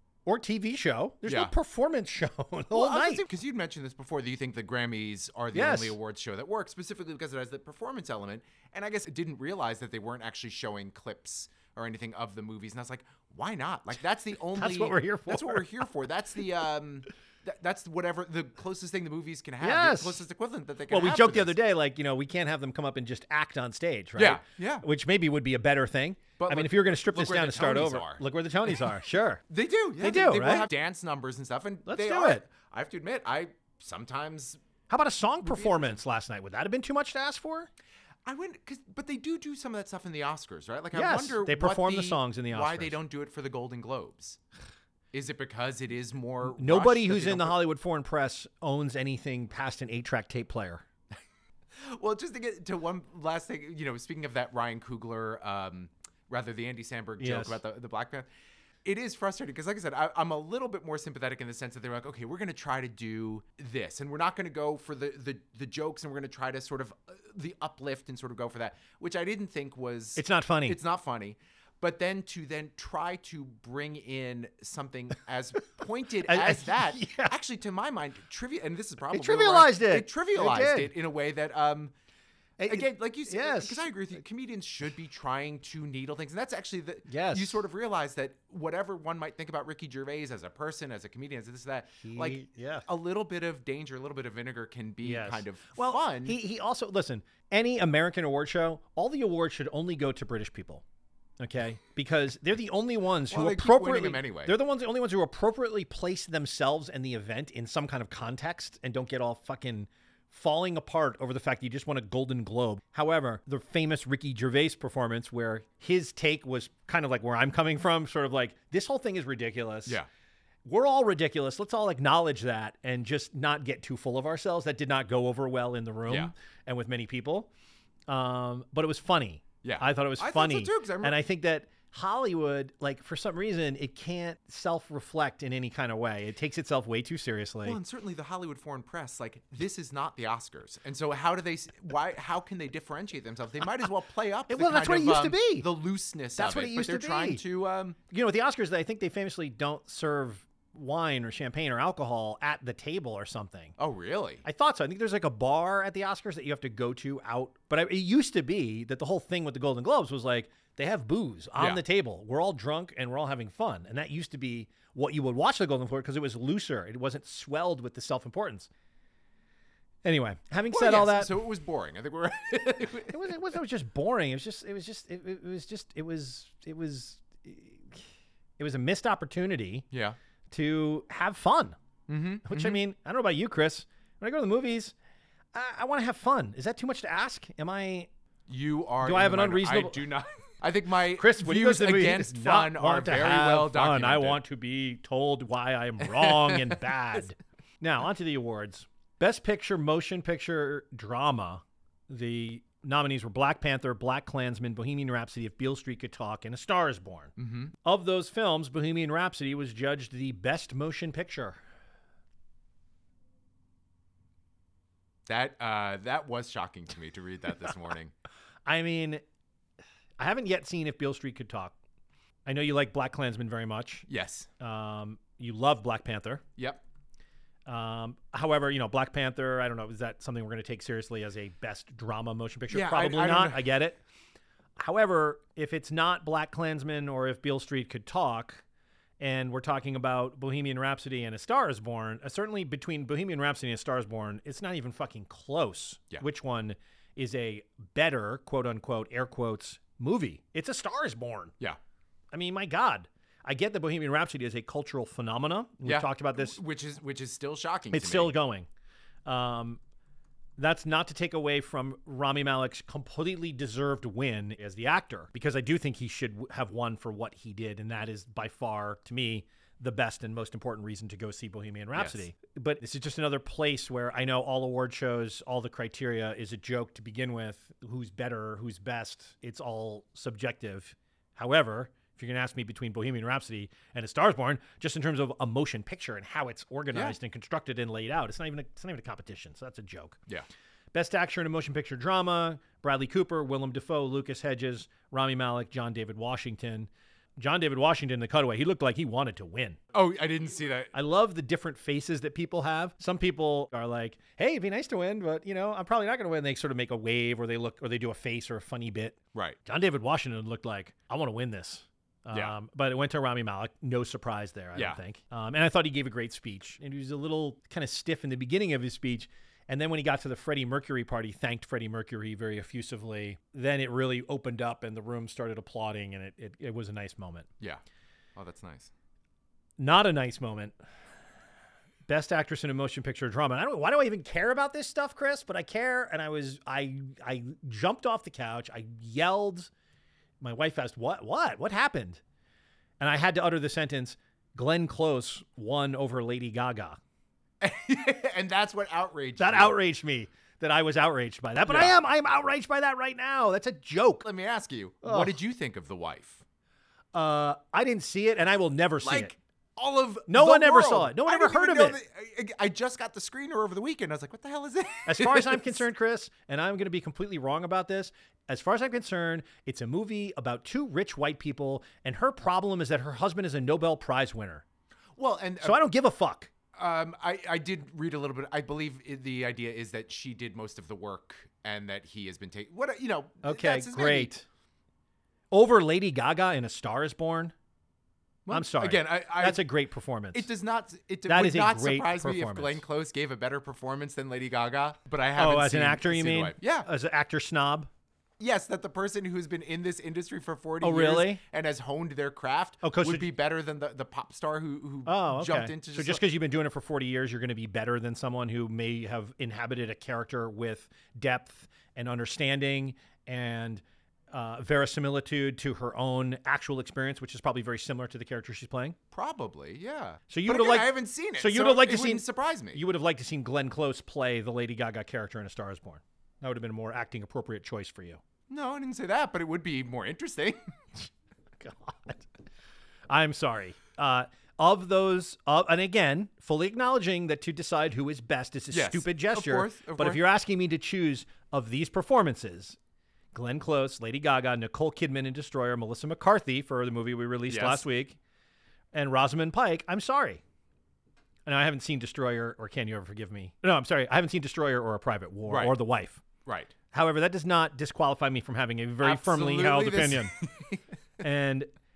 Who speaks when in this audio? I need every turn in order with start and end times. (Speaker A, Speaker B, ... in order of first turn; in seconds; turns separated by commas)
Speaker A: 0.3-3.2, Speaker B: 1.2-1.5, Speaker B: 2.7-21.5, Speaker A: 5.5-6.0, Speaker A: 14.6-15.7, Speaker A: 19.6-20.2, Speaker A: 20.9-29.4, Speaker B: 24.2-24.9, Speaker B: 26.4-28.9, Speaker B: 29.5-34.6, Speaker A: 30.0-30.7, Speaker A: 31.9-32.4, Speaker A: 34.9-37.7, Speaker B: 35.4-35.9, Speaker B: 38.2-44.4, Speaker A: 40.9-43.0, Speaker B: 45.1-47.6, Speaker A: 46.5-50.9, Speaker B: 51.8-58.3, Speaker A: 57.2-57.6, Speaker B: 58.8-81.9, Speaker A: 70.2-70.8, Speaker A: 76.2-77.4, Speaker A: 79.1-80.9, Speaker A: 82.6-83.9, Speaker B: 82.7-96.4, Speaker A: 87.1-87.6, Speaker A: 92.0-92.9, Speaker A: 95.0-100.8, Speaker A: 101.4-120.0, Speaker B: 103.3-104.5, Speaker A: 120.7-127.5, Speaker B: 126.1-126.3, Speaker A: 128.1-137.8, Speaker B: 129.6-131.2, Speaker B: 137.6-148.0, Speaker A: 144.5-145.7, Speaker A: 146.4-147.4, Speaker A: 148.1-153.8, Speaker B: 153.8-154.4, Speaker A: 154.4-168.7, Speaker B: 161.6-161.8, Speaker A: 170.0-171.4, Speaker B: 170.7-173.3, Speaker A: 173.1-178.1, Speaker A: 178.6-179.9, Speaker B: 179.9-180.2, Speaker A: 180.5-181.8, Speaker B: 182.1-182.8, Speaker A: 182.4-184.9, Speaker A: 185.5-188.1, Speaker B: 188.5-194.4, Speaker A: 189.0-190.0, Speaker A: 191.2-211.6, Speaker B: 196.0-196.8, Speaker B: 207.4-207.7, Speaker B: 215.3-218.1, Speaker A: 218.7-219.2, Speaker A: 220.2-221.8, Speaker A: 222.5-224.1, Speaker B: 224.1-224.5, Speaker A: 224.6-226.4, Speaker B: 226.6-226.8, Speaker A: 227.7-234.0, Speaker B: 232.7-233.7, Speaker A: 234.8-238.6, Speaker A: 239.2-251.5, Speaker A: 252.3-256.6, Speaker B: 255.8-258.3, Speaker A: 257.9-258.7, Speaker A: 259.3-259.8, Speaker A: 260.6-290.2, Speaker B: 271.9-272.2, Speaker A: 290.9-299.8, Speaker B: 299.9-300.9, Speaker A: 300.9-327.5, Speaker B: 328.4-328.9, Speaker A: 329.8-330.8, Speaker A: 332.1-339.7, Speaker A: 340.4-342.2, Speaker A: 343.0-347.0, Speaker B: 347.6-349.8, Speaker A: 349.4-354.3, Speaker B: 351.7-352.0, Speaker B: 354.2-356.4, Speaker A: 355.0-355.4, Speaker A: 357.1-359.3, Speaker B: 359.0-365.8, Speaker A: 360.3-362.0, Speaker A: 365.1-374.6, Speaker B: 375.2-375.8, Speaker A: 375.6-376.5, Speaker B: 376.7-384.3, Speaker A: 383.4-384.5, Speaker A: 385.5-387.5, Speaker B: 388.4-389.7, Speaker A: 388.5-390.5, Speaker B: 390.3-396.9, Speaker A: 391.3-392.8, Speaker A: 395.4-397.9, Speaker B: 398.4-406.2, Speaker A: 400.8-401.4, Speaker A: 402.8-403.3, Speaker A: 405.1-419.0, Speaker B: 419.1-422.8, Speaker A: 420.3-428.2, Speaker B: 428.5-430.7, Speaker A: 431.6-432.3, Speaker A: 433.1-442.8, Speaker B: 438.7-440.2, Speaker A: 443.3-448.2, Speaker B: 447.5-447.9, Speaker A: 448.9-450.4, Speaker A: 451.5-456.2, Speaker B: 455.5-455.8, Speaker B: 456.4-456.7, Speaker A: 456.9-460.4, Speaker B: 459.0-460.9, Speaker A: 461.2-461.7